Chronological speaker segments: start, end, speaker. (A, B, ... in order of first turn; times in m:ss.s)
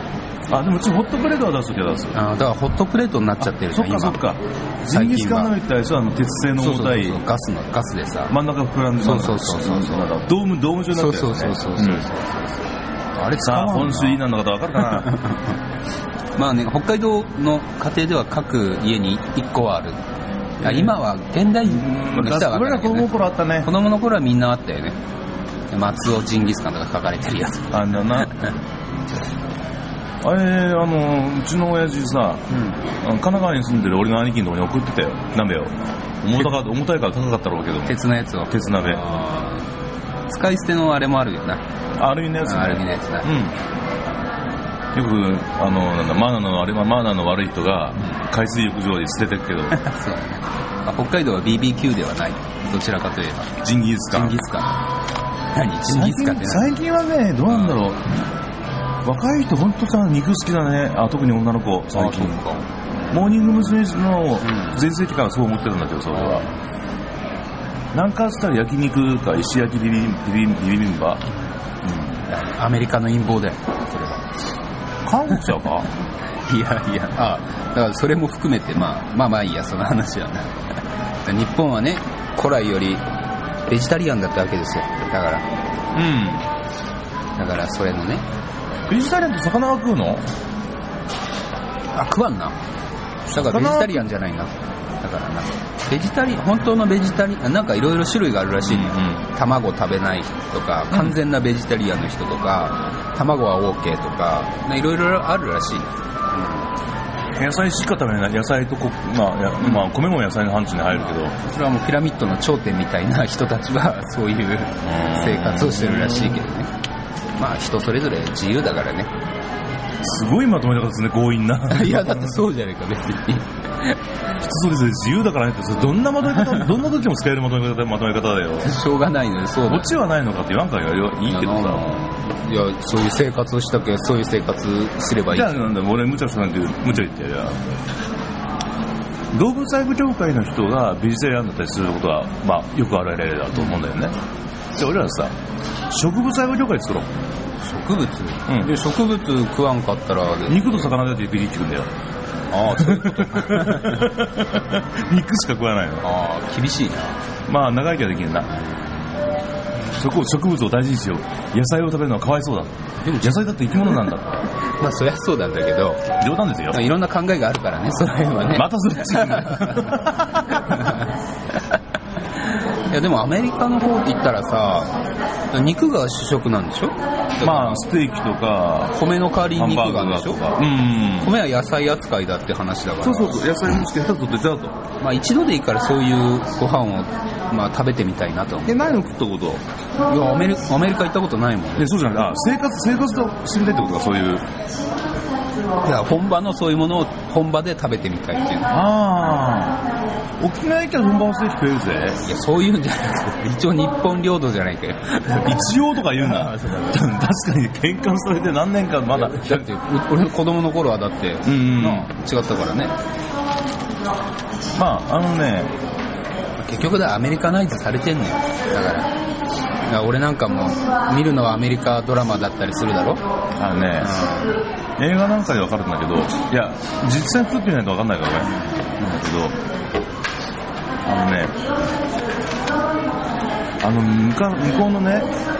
0:00.5-0:02.2 A
0:02.1-0:04.2 B
0:03.4-0:07.2 A
0:04.9-0:05.5 B
0:06.5-0:08.3 B
0:08.3-0:12.1 A
0:09.0-0:10.1 B
0:10.9-0:14.2 B
0:13.4-0:15.1 A
0:14.8-0:15.5 B
0:16.4-0:20.0 B
0:20.6-0:21.0 A
0:20.6-0:25.0 B
0:21.6-0:23.7 A
0:25.7-0:28.5 B
0:27.7-0:28.3 A
0:30.2-0:32.4 A
0:32.5-0:32.8 B
0:33.0-0:38.0 A
0:37.8-0:39.7 B
0:38.5-0:39.0 A
0:40.3-0:41.6 B
0:42.0-0:43.6 A
0:42.4-0:43.3 B
0:44.9-0:49.8 A
0:49.7-0:53.6 B
0:53.6-0:54.4 A
0:54.1-0:54.8 B
0:55.5-0:56.7 B
0:55.8-0:58.1 A
0:57.5-0:57.8 B
0:59.0-1:02.4 A
1:01.9-1:03.1 B
1:03.1-1:06.4 A
1:04.4-1:04.8 B
1:06.1-1:06.5 B
1:07.9-1:11.2 A
1:11.8-1:12.2 A
1:12.2-1:14.3 B
1:15.0-1:15.9 A
1:16.4-1:20.5 B
1:21.2-1:23.0 B
1:23.7-1:25.4 B
1:25.9-1:26.4 A
1:27.4-1:28.2 B
1:28.9-1:30.3 A
1:31.9-1:32.6 B
1:33.3-1:46.6 B
1:33.3-1:34.1 A
1:38.6-1:39.2 A
1:40.9-1:41.2 A
1:47.4-1:51.4 A
1:50.9-1:56.7 B
1:54.8-1:56.4 A
1:57.4-1:59.1 B
2:00.0-2:02.4 A
2:01.7-2:04.0 B
2:04.4-2:08.7 A
2:06.2-2:06.8 B
2:08.6-2:09.9 B
2:09.7-2:12.0 A
2:11.2-2:15.6 B
2:15.3-2:17.6 A
2:19.3-2:24.2 A
2:24.7-2:25.3 A
2:25.9-2:27.1 A
2:27.6-2:30.9 B
2:28.5-2:28.7 A
2:30.5-2:31.9 A
2:32.5-2:34.1 B
2:32.7-2:36.0 A
2:36.0-2:37.2 B
2:37.5-2:38.5 A
2:39.9-2:44.3 A
2:43.0-2:46.1 B
2:46.2-2:46.9 A
2:46.7-2:49.9 B
2:48.5-2:51.0 A
2:50.5-2:51.1 B
2:52.9-2:54.9 B
2:55.5-2:57.8 B
2:57.4-2:58.9 A
2:58.9-3:00.6 B
2:59.5-3:01.3 A
3:01.2-3:03.5 B
3:03.0-3:04.8 A
3:05.0-3:08.9 B
3:08.6-3:09.6 A
3:10.0-3:11.9 B
3:11.8-3:14.4 A
3:15.8-3:18.7 B
3:18.7-3:19.8 A
3:20.4-3:22.2 A
3:22.2-3:27.0 B
3:25.4-3:29.6 A
3:29.1-3:32.9 B
3:31.4-3:32.1 A
3:34.7-3:35.7 A
3:36.6-3:39.1 B
3:39.8-3:43.2 B
3:43.6-3:44.2 A
3:44.0-3:44.6 B
3:45.0-3:49.6 A
3:51.0-3:51.6 A
3:53.8-3:55.3 A